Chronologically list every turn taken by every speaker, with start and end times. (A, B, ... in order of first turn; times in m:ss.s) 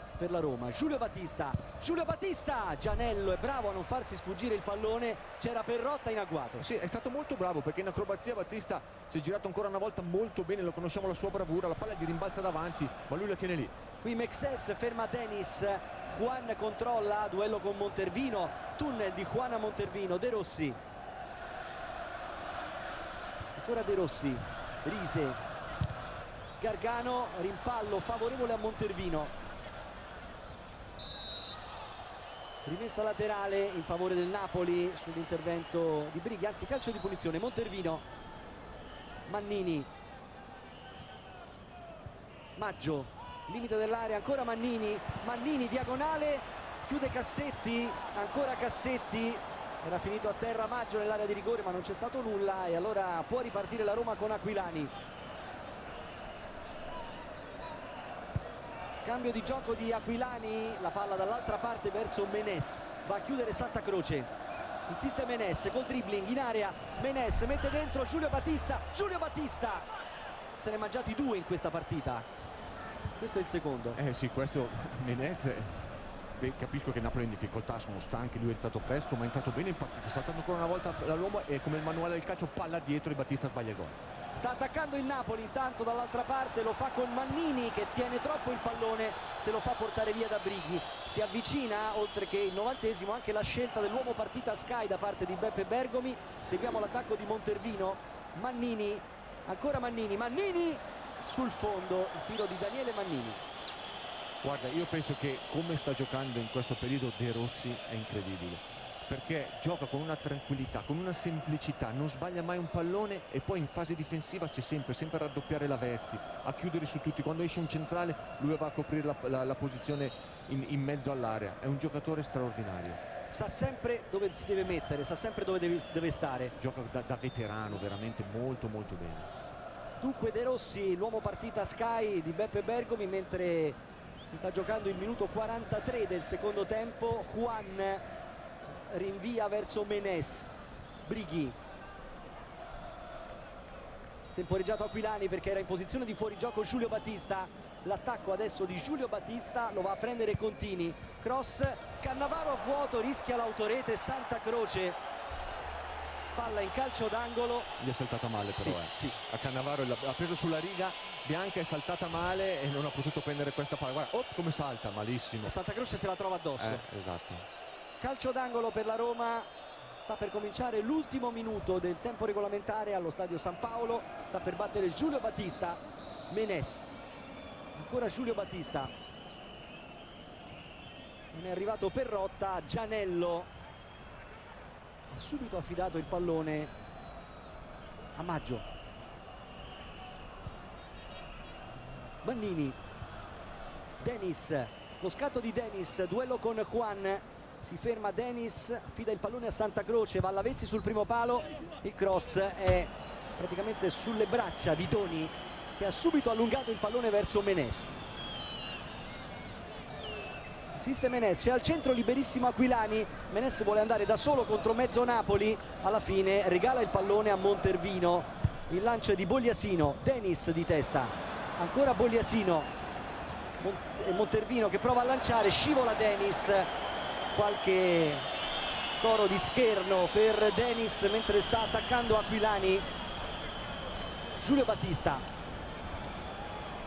0:00.2-0:06.6 A
0:06.6-0:13.7 B
0:14.0-0:20.8 A
0:23.5-0:25.4 A
0:26.6-0:29.3 A
0:32.6-0:38.0 A
0:39.3-0:39.9 A
0:42.6-0:54.9 A
0:59.0-1:04.3 A
1:04.9-1:09.9 A
1:10.6-1:12.2 A
1:13.2-1:14.0 A
1:14.0-1:15.8 B
1:16.4-1:24.0 B
1:24.4-1:43.4 A
1:44.4-2:03.0 B
2:03.3-2:06.5 A
2:06.6-2:09.3 B
2:10.0-2:18.0 A
2:18.9-2:20.5 A
2:21.0-2:21.6 A
2:24.3-2:35.0 A
2:36.3-2:37.7 A
2:37.8-2:45.6 B
2:38.6-2:39.1 A
2:45.4-2:46.8 A
2:46.6-2:47.4 B
2:48.0-2:49.5 A
2:50.0-2:56.9 A
2:57.7-2:58.9 A
3:01.3-3:03.5 A
3:05.1-3:06.7 A
3:08.2-3:08.6 A
3:12.2-3:12.8 A
3:14.0-3:27.9 A
3:30.7-3:42.7 A
3:43.6-3:46.7 A
3:47.3-3:48.2 A
3:49.0-3:52.9 A
3:54.4-3:55.2 A